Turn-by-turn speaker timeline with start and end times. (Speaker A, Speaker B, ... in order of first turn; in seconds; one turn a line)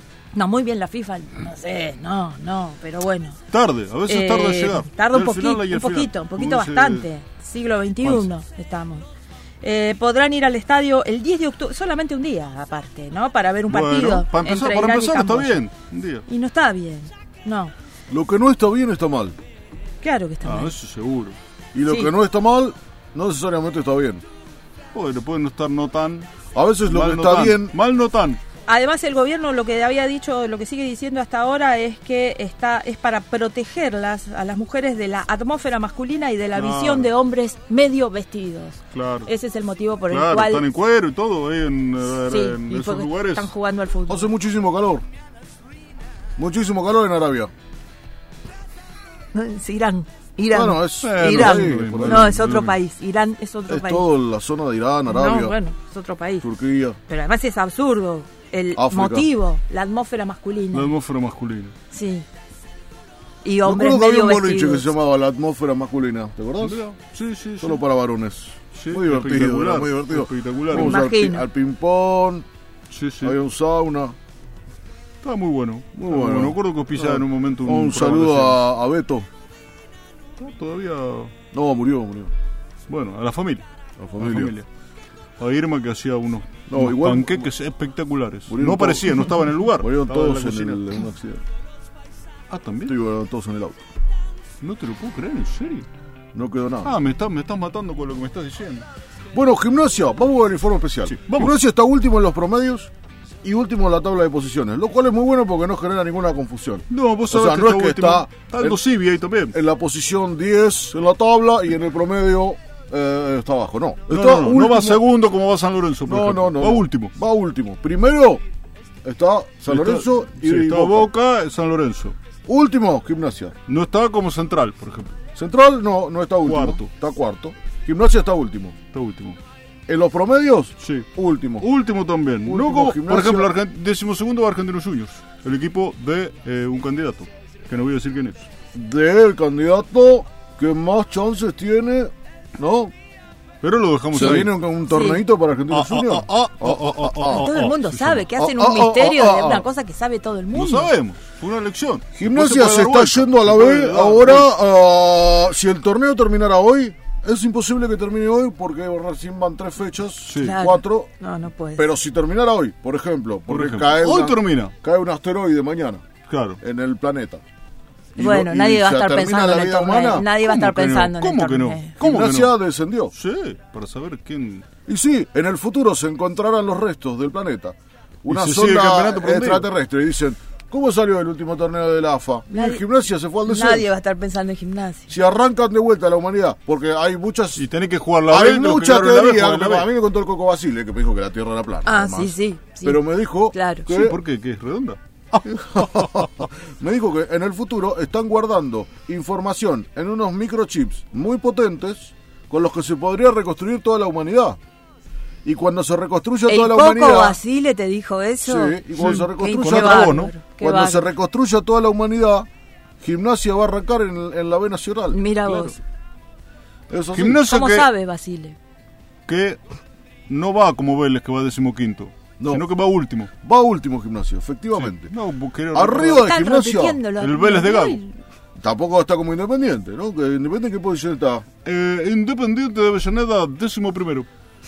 Speaker A: 0.3-3.4
Speaker B: 3.5-7.1
Speaker A: 4.0-9.1
Speaker A: 9.6-15.6
Speaker B: 13.7-16.2
Speaker A: 16.3-17.7
Speaker C: 18.1-19.4
Speaker A: 20.0-20.7
Speaker B: 20.4-21.4
Speaker C: 21.7-24.2
Speaker A: 21.9-22.1
Speaker B: 24.9-26.3
Speaker C: 26.5-27.8
Speaker B: 26.8-28.4
Speaker A: 28.7-40.6
Speaker B: 36.5-37.1
Speaker B: 38.9-39.3
Speaker B: 40.1-43.5
Speaker A: 42.2-44.3
Speaker C: 44.1-45.0
Speaker C: 46.4-47.5
Speaker A: 49.3-54.1
Speaker C: 50.5-52.4
Speaker B: 51.0-52.8
Speaker C: 53.7-55.5
Speaker A: 55.1-56.5
Speaker C: 56.4-57.0
Speaker A: 57.1-60.9
Speaker C: 58.7-59.3
Speaker B: 60.7-61.7
Speaker A: 61.9-62.2
Speaker A: 63.4-64.9
Speaker C: 63.6-66.8
Speaker B: 66.6-67.8
Speaker C: 67.6-72.5
Speaker B: 68.7-71.0
Speaker A: 70.7-71.5
Speaker B: 72.9-73.3
Speaker C: 73.2-74.2
Speaker B: 75.2-78.6
Speaker C: 75.9-79.3
Speaker B: 80.4-81.3
Speaker C: 81.5-82.3
Speaker B: 82.9-83.7
Speaker C: 84.0-84.5
Speaker B: 84.2-84.7
Speaker B: 85.4-91.0
Speaker C: 86.7-87.5
Speaker C: 88.5-91.4
Speaker B: 92.5-92.9
Speaker C: 92.8-93.8
Speaker B: 94.6-95.9
Speaker C: 96.3-96.9
Speaker B: 96.8-98.8
Speaker C: 99.3-102.9
Speaker B: 101.0-101.6
Speaker C: 103.4-108.8
Speaker B: 106.9-109.5
Speaker C: 109.5-115.0
Speaker B: 114.1-117.1
Speaker C: 116.0-118.4
Speaker C: 119.0-121.1
Speaker B: 119.7-122.2
Speaker C: 122.5-123.5
Speaker B: 123.7-125.1
Speaker C: 125.3-128.8
Speaker B: 126.4-126.8
Speaker B: 128.9-129.4
Speaker C: 129.9-131.7
Speaker B: 130.8-131.1
Speaker B: 131.6-138.5
Speaker C: 132.4-133.5
Speaker C: 138.7-142.9
Speaker B: 143.6-144.6
Speaker C: 144.1-147.5
Speaker A: 144.9-145.2
Speaker B: 145.7-148.3
Speaker A: 147.2-150.9
Speaker C: 148.4-149.7
Speaker B: 150.5-154.5
Speaker C: 152.2-161.1
Speaker B: 160.2-160.6
Speaker A: 160.4-161.8
Speaker C: 161.8-166.0
Speaker B: 163.5-164.7
Speaker B: 166.3-166.6
Speaker C: 166.6-167.4
Speaker C: 168.2-170.3
Speaker A: 168.2-171.9
Speaker B: 170.3-172.6
Speaker C: 172.0-173.1
Speaker B: 173.1-174.7
Speaker C: 174.8-183.9
Speaker B: 178.3-179.7
Speaker A: 182.5-182.8
Speaker A: 183.5-185.1
Speaker C: 185.1-187.7
Speaker B: 187.6-189.9
Speaker C: 188.2-194.2
Speaker A: 191.8-193.9
Speaker B: 193.9-196.4
Speaker C: 195.7-204.6
Speaker C: 205.4-207.4
Speaker A: 206.5-211.1
Speaker C: 208.4-212.5
Speaker B: 209.0-210.3
Speaker C: 213.0-215.2
Speaker A: 215.1-215.8
Speaker B: 215.4-215.7
Speaker C: 216.9-217.5
Speaker B: 217.1-217.9
Speaker A: 217.4-218.6
Speaker B: 219.3-219.6
Speaker B: 220.3-223.3
Speaker C: 222.4-222.7
Speaker C: 223.4-225.1
Speaker B: 224.7-226.3
Speaker C: 225.7-227.0
Speaker A: 226.1-228.2
Speaker B: 227.2-228.0
Speaker C: 228.6-231.4
Speaker B: 231.6-234.3